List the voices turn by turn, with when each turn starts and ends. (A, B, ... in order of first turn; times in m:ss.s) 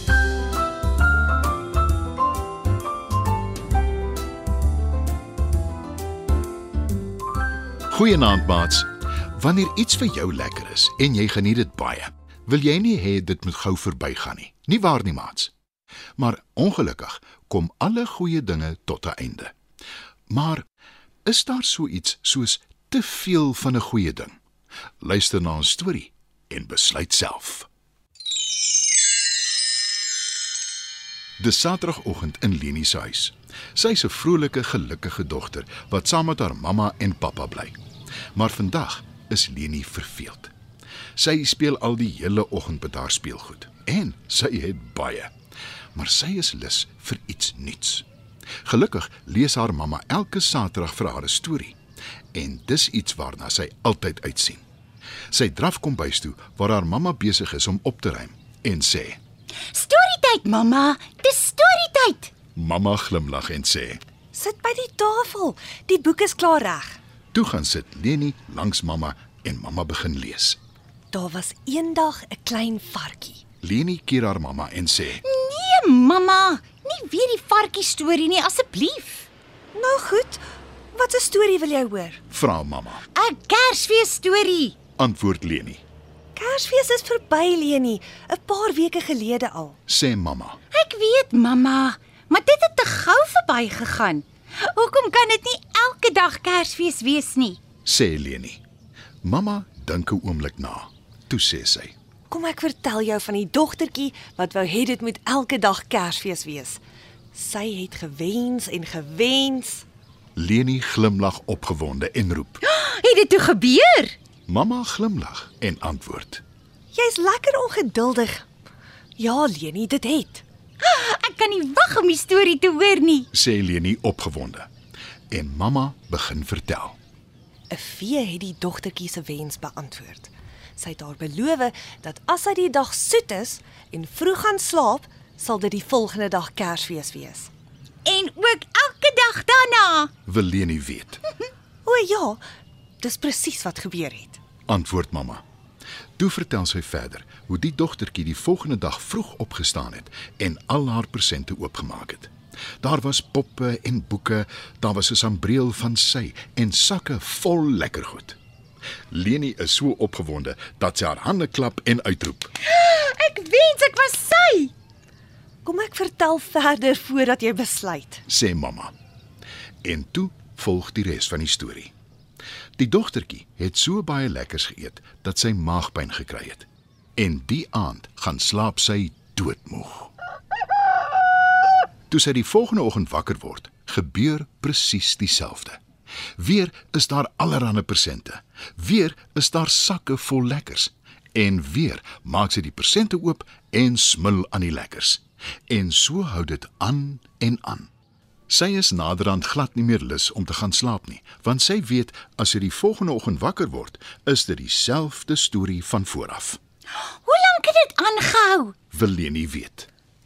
0:07.9-0:15.5 A
0:16.2-0:19.5 A
0:20.3-0:20.6 A
0:21.2-0:24.4 A
0:25.0-0:27.7 A
0:31.4-0:37.8 A
0:38.3-0:40.5 A
0:41.2-0:45.3 A
0:45.9-0:48.0 A
0:48.6-0:51.8 A
0:52.3-0:54.6 A
0:55.3-0:59.2 A
0:59.7-1:02.3 B
1:02.5-1:04.0 A
1:04.3-1:07.0 C
1:07.3-1:10.6 A
1:11.1-1:13.4 C
1:13.6-1:15.2 A
1:15.2-1:19.3 B
1:19.7-1:20.4 C
1:20.9-1:22.2 C
1:22.3-1:23.0 A
1:23.1-1:24.8 B
1:25.0-1:25.8 A
1:26.3-1:29.8 C
1:29.9-1:30.6 A
1:30.7-1:37.6 B
1:37.8-1:38.6 A
1:39.2-1:41.9 A
1:42.3-1:46.8 C
1:47.3-1:49.8 C
1:50.4-1:52.6 A
1:52.6-1:54.2 B
1:54.5-1:56.4 A
1:56.9-1:58.4 C
1:59.2-2:00.4 C
2:00.8-2:03.3 B
2:03.3-2:04.7 A
2:05.3-2:07.0 A
2:07.7-2:17.5 C
2:18.0-2:20.1 B
2:20.2-2:21.2 A
2:21.8-2:22.4 C
2:23.0-2:24.4 C
2:24.7-2:25.4 A
2:26.2-2:38.4 A
2:39.1-2:42.5 A
2:42.6-2:44.7 B
2:45.6-2:48.2 C
2:48.3-2:48.9 A
2:49.8-2:51.9 A
2:52.8-3:00.1 A
3:02.1-3:05.8 A
3:06.4-3:17.9 A
3:18.5-3:26.6 A
3:27.2-3:28.7 B
3:28.9-3:29.9 A